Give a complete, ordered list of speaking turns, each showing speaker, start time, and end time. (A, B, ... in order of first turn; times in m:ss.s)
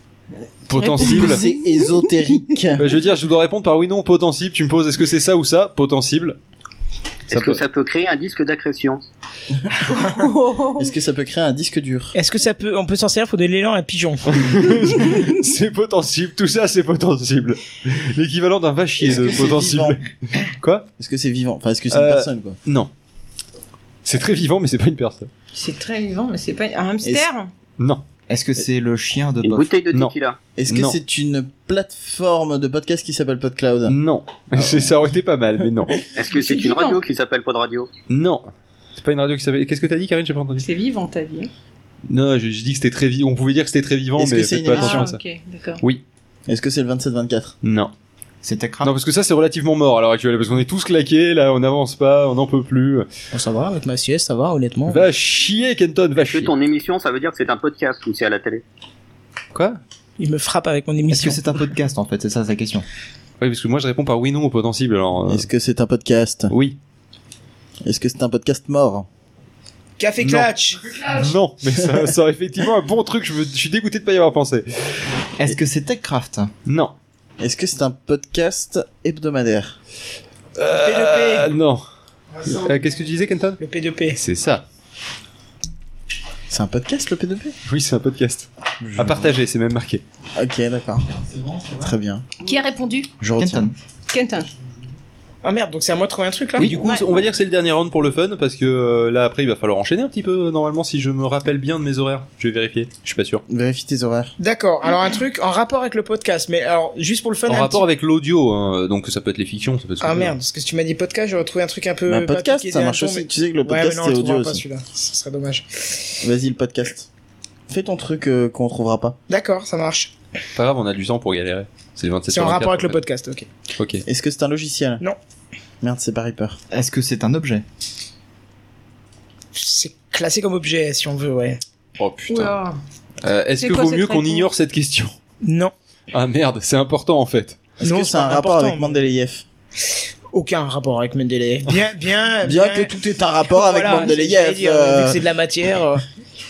0:00.7-0:02.6 A
0:00.7-0:01.4 B
0:01.0-0:02.9 C
0:02.8-0:06.4 B
0:07.3-0:07.6 B
0:07.3-0:09.0 D
0:09.9-0:10.9 A
0:10.8-0:12.1 C
0:12.1-0:14.3 E
0:14.3-0:20.8 B
0:19.0-0:20.0 C
0:21.0-0:22.6 C
0:21.9-0:22.9 B
0:24.0-0:25.3 B
0:25.5-0:27.5 A
0:28.3-0:29.7 F
0:29.4-0:30.4 D
0:30.6-0:33.9 C
0:30.7-0:31.0 B
0:33.9-0:36.0 B
0:34.5-0:35.0 C
0:36.2-0:37.9 D
0:36.2-0:37.0 A
0:38.1-0:38.4 B
0:39.0-0:40.6 B
0:40.6-0:41.5 A
0:42.1-0:45.2 B
0:44.2-0:45.1 C
0:44.7-0:45.8 A
0:46.5-0:47.5 C
0:47.6-0:47.9 B
0:48.4-0:48.9 F
0:48.8-0:53.1 B
0:53.3-0:55.0 E
0:54.9-0:56.5 B
0:56.2-0:58.6 D
0:59.5-0:59.8 B
1:00.2-1:01.4 E
1:01.1-1:02.8 F
1:03.4-1:05.5 B
1:05.3-1:06.5 C
1:06.5-1:06.8 B
1:07.8-1:09.1 C
1:10.0-1:10.8 E
1:10.2-1:15.0 B
1:15.4-1:16.5 F
1:16.7-1:16.9 B
1:17.4-1:19.8 C
1:20.6-1:21.8 B
1:20.7-1:21.5 E
1:22.4-1:23.6 B
1:23.6-1:24.2 E
1:24.2-1:24.6 B
1:26.5-1:27.5 C
1:27.7-1:30.0 B
1:28.8-1:29.3 F
1:30.4-1:31.1 C
1:31.1-1:31.9 F
1:31.8-1:32.2 C
1:32.4-1:33.1 A
1:33.2-1:33.7 C
1:33.3-1:33.7 F
1:34.1-1:34.5 A
1:35.4-1:36.7 E
1:36.6-1:43.4 B
1:43.5-1:44.3 C
1:44.4-1:47.8 E
1:47.5-1:50.3 B
1:50.0-1:56.0 E
1:52.0-1:54.6 C
1:56.2-1:57.1 C
1:57.7-1:59.2 C
1:59.3-2:00.1 E
2:00.5-2:03.0 B
2:02.3-2:03.5 E
2:03.8-2:04.0 B
2:04.0-2:05.0 C
2:05.8-2:06.6 C
2:06.7-2:07.6 F
2:09.5-2:11.6 E
2:12.0-2:12.6 B
2:12.3-2:12.8 A
2:13.2-2:15.1 B
2:13.6-2:14.5 A
2:15.4-2:15.7 E
2:16.1-2:17.6 B
2:17.8-2:19.4 C
2:17.8-2:19.0 E
2:20.3-2:23.0 E
2:22.4-2:25.2 C
2:23.5-2:26.0 E